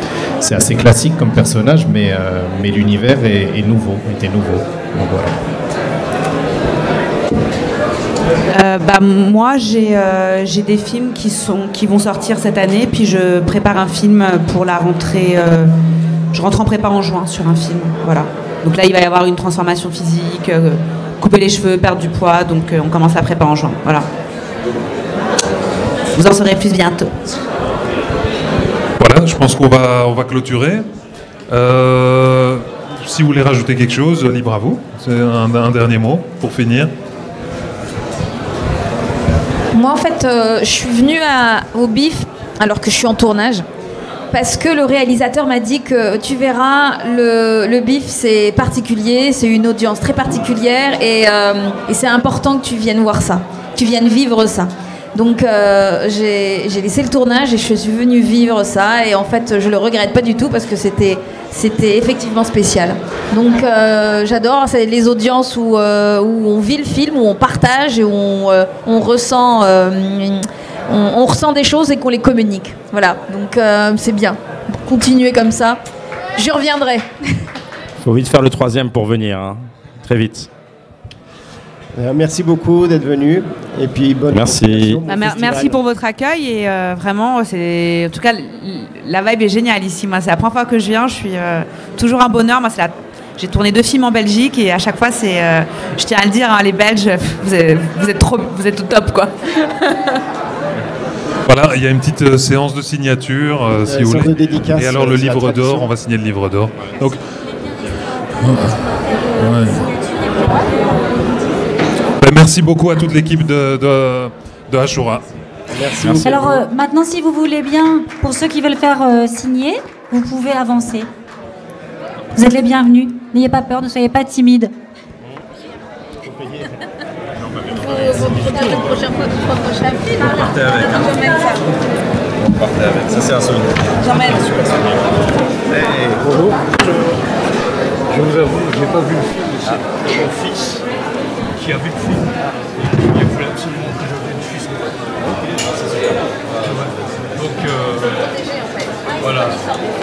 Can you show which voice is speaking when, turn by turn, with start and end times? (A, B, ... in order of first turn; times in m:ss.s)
0:00.4-0:05.4 A
0:08.5-0:15.7 B
0:16.3-0:24.1 B
0:26.2-0:27.2 B
0:29.0-0:30.9 C
0:31.5-0:36.9 C
0:39.7-0:43.7 D
0:44.3-1:15.8 D
1:16.4-1:17.1 D
1:18.0-1:20.5 E
1:22.0-1:25.8 F
1:24.3-1:25.0 E
1:25.1-1:40.2 B
1:41.5-1:47.2 C
1:43.8-1:45.9 F
1:48.4-1:48.8 C
1:49.1-1:51.3 G
1:49.4-1:49.8 C
1:52.2-1:55.2 C
1:55.7-1:56.6 F
1:56.2-2:01.1 G
2:02.4-2:04.7 G
2:07.7-2:11.7 D
2:12.5-2:13.7 E
2:14.0-2:14.4 D
2:18.1-2:20.8 H
2:21.6-2:25.0 H
2:26.6-2:28.3 H
2:29.2-2:29.6 H